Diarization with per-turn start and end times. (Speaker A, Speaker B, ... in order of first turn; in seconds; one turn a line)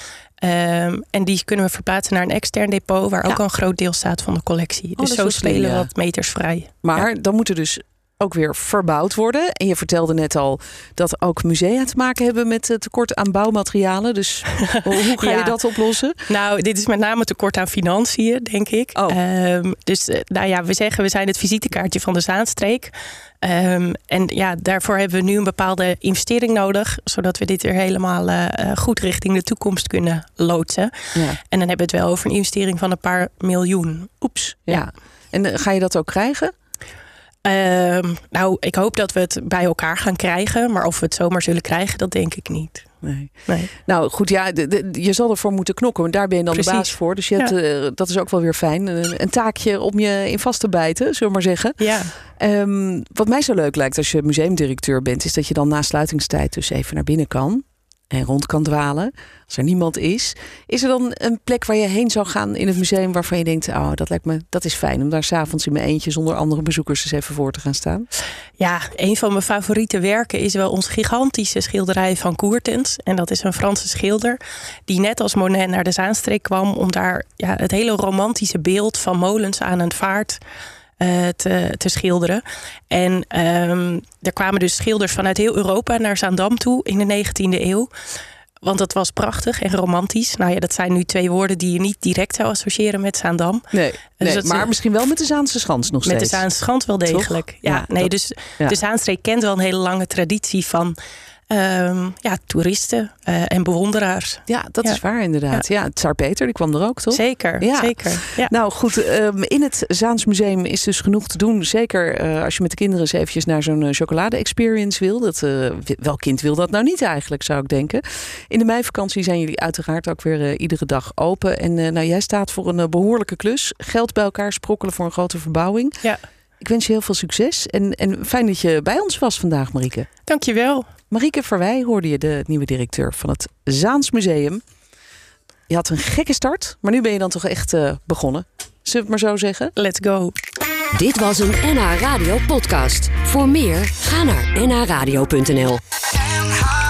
Speaker A: 0.4-7.0
Speaker B: 5.0-5.9
Speaker B: 6.8-16.2
Speaker A: 15.2-15.6
Speaker A: 16.3-34.8
Speaker B: 31.1-31.4
Speaker B: 34.4-36.5
Speaker A: 37.4-42.9
Speaker B: 43.0-51.8
Speaker A: 43.5-43.7
Speaker A: 46.5-47.5
Speaker A: 51.8-52.1
Speaker B: 52.4-68.1
Speaker A: 68.6-80.4
Speaker A: 81.0-87.9
Speaker A: 88.6-94.7
Speaker B: 93.7-96.5
Speaker A: 96.0-101.0
Speaker B: 97.0-98.8
Speaker A: 101.5-105.6
Speaker B: 104.5-125.9
Speaker A: 107.1-108.5
Speaker B: 126.6-130.1
Speaker A: 130.2-130.9
Speaker B: 131.1-134.6
Speaker B: 135.7-139.7
Speaker A: 139.8-140.3
Speaker C: 140.9-145.8